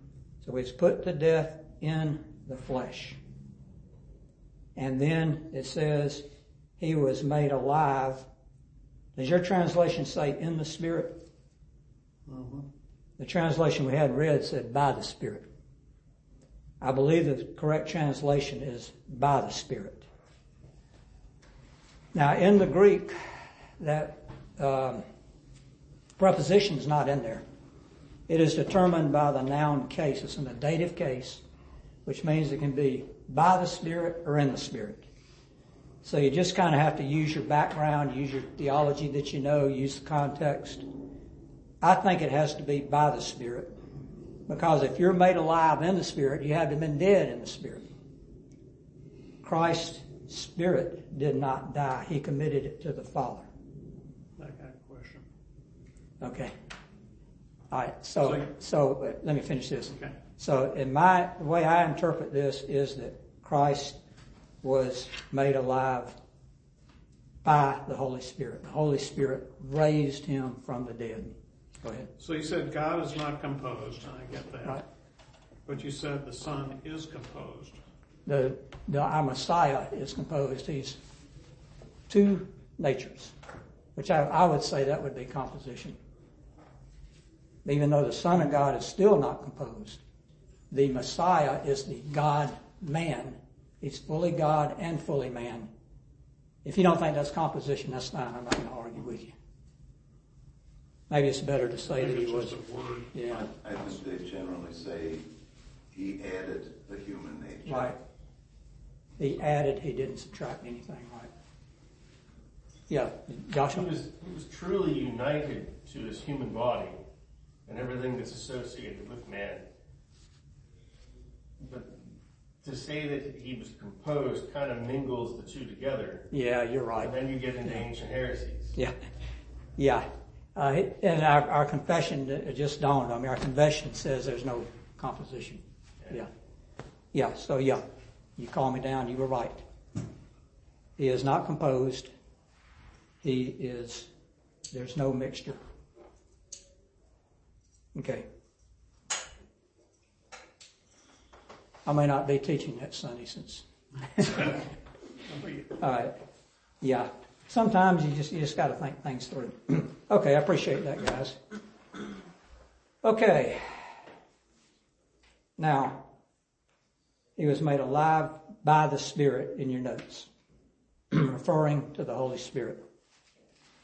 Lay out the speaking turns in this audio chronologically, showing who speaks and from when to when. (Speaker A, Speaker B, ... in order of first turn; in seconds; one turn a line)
Speaker A: 0.4-3.2
Speaker A: 4.8-6.2
Speaker A: 6.8-8.2
Speaker A: 9.2-11.2
Speaker B: 12.3-12.6
Speaker A: 13.2-15.5
Speaker A: 16.8-20.1
Speaker A: 22.1-25.0
Speaker A: 26.2-27.4
Speaker A: 28.3-31.4
Speaker A: 32.0-35.1
Speaker A: 36.0-40.8
Speaker A: 41.8-43.7
Speaker A: 44.5-47.9
Speaker A: 49.4-53.5
Speaker B: 54.4-55.2
Speaker A: 56.2-56.5
Speaker A: 57.7-64.0
Speaker B: 58.2-58.5
Speaker B: 59.9-60.1
Speaker A: 64.6-66.1
Speaker A: 67.4-72.1
Speaker B: 72.2-74.8
Speaker B: 75.7-77.8
Speaker A: 78.2-81.0
Speaker A: 82.1-83.3
Speaker A: 83.9-86.0
Speaker A: 87.6-90.0
Speaker A: 90.7-95.7
Speaker A: 96.6-99.3
Speaker A: 101.1-102.6
Speaker B: 101.7-103.5
Speaker A: 103.1-103.5
Speaker C: 103.6-105.2
Speaker C: 105.9-107.9
Speaker A: 107.7-108.0
Speaker A: 109.2-111.3
Speaker A: 112.9-113.9
Speaker D: 113.7-117.0
Speaker D: 117.7-119.6
Speaker D: 121.6-126.3
Speaker A: 126.3-127.9
Speaker D: 127.0-128.8
Speaker A: 129.8-136.3
Speaker A: 137.1-137.8
Speaker A: 138.4-139.6
Speaker A: 141.0-142.1
Speaker A: 143.2-144.1
Speaker A: 144.7-145.6
Speaker A: 147.9-148.2
Speaker A: 151.8-154.6
Speaker B: 155.3-155.7
Speaker A: 155.8-156.2
Speaker A: 156.8-161.4
Speaker A: 163.0-163.9
Speaker A: 165.6-166.0
Speaker A: 167.3-170.3
Speaker A: 171.1-172.8